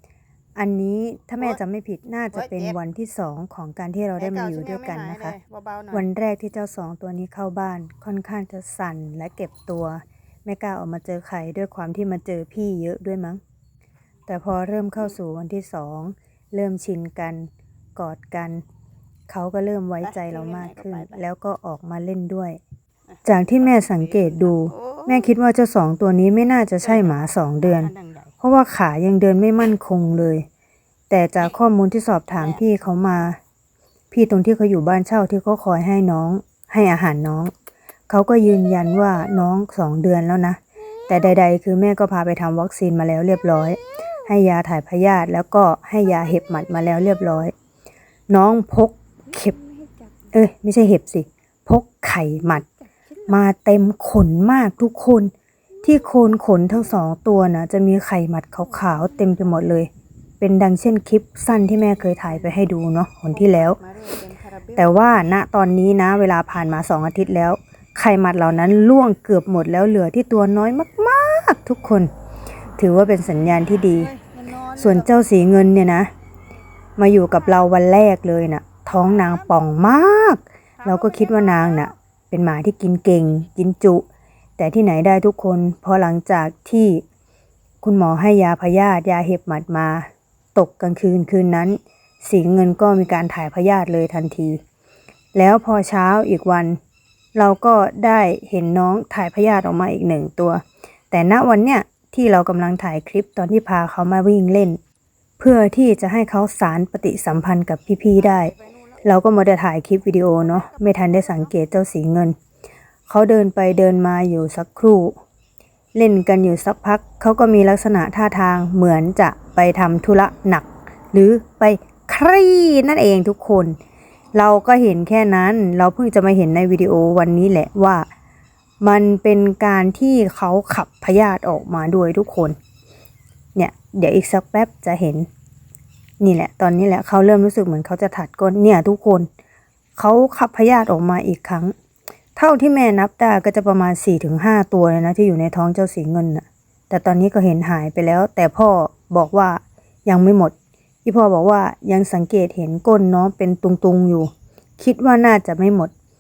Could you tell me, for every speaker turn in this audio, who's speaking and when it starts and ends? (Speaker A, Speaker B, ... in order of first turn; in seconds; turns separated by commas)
Speaker A: 0.6-5.3, Speaker B: 2.3-2.8, Speaker B: 4.2-6.1, Speaker A: 5.9-13.4, Speaker A: 14.3-18.6, Speaker A: 19.3-22.6, Speaker B: 20.0-21.2, Speaker A: 23.2-30.4, Speaker B: 24.2-25.3, Speaker B: 26.8-28.3, Speaker A: 31.1-33.4, Speaker A: 34.1-37.5, Speaker A: 38.1-47.5, Speaker A: 48.3-49.6, Speaker A: 50.3-52.7, Speaker A: 53.3-55.3, Speaker A: 55.8-59.9, Speaker A: 60.4-63.8, Speaker B: 62.1-62.5, Speaker B: 63.3-65.1, Speaker A: 64.8-72.1, Speaker A: 72.8-74.1, Speaker B: 74.0-75.1, Speaker A: 74.7-76.1, Speaker A: 77.0-84.1, Speaker B: 80.8-81.9, Speaker A: 84.6-87.0, Speaker A: 87.8-94.6, Speaker A: 95.3-96.8, Speaker A: 97.3-104.8, Speaker A: 105.4-108.5, Speaker B: 108.2-109.0, Speaker A: 109.0-112.4, Speaker B: 110.3-111.5, Speaker A: 113.1-115.2, Speaker A: 116.0-123.8, Speaker A: 124.3-128.1, Speaker A: 128.8-132.6, Speaker A: 133.6-135.3, Speaker A: 136.2-139.3, Speaker A: 140.0-141.7, Speaker A: 142.4-155.9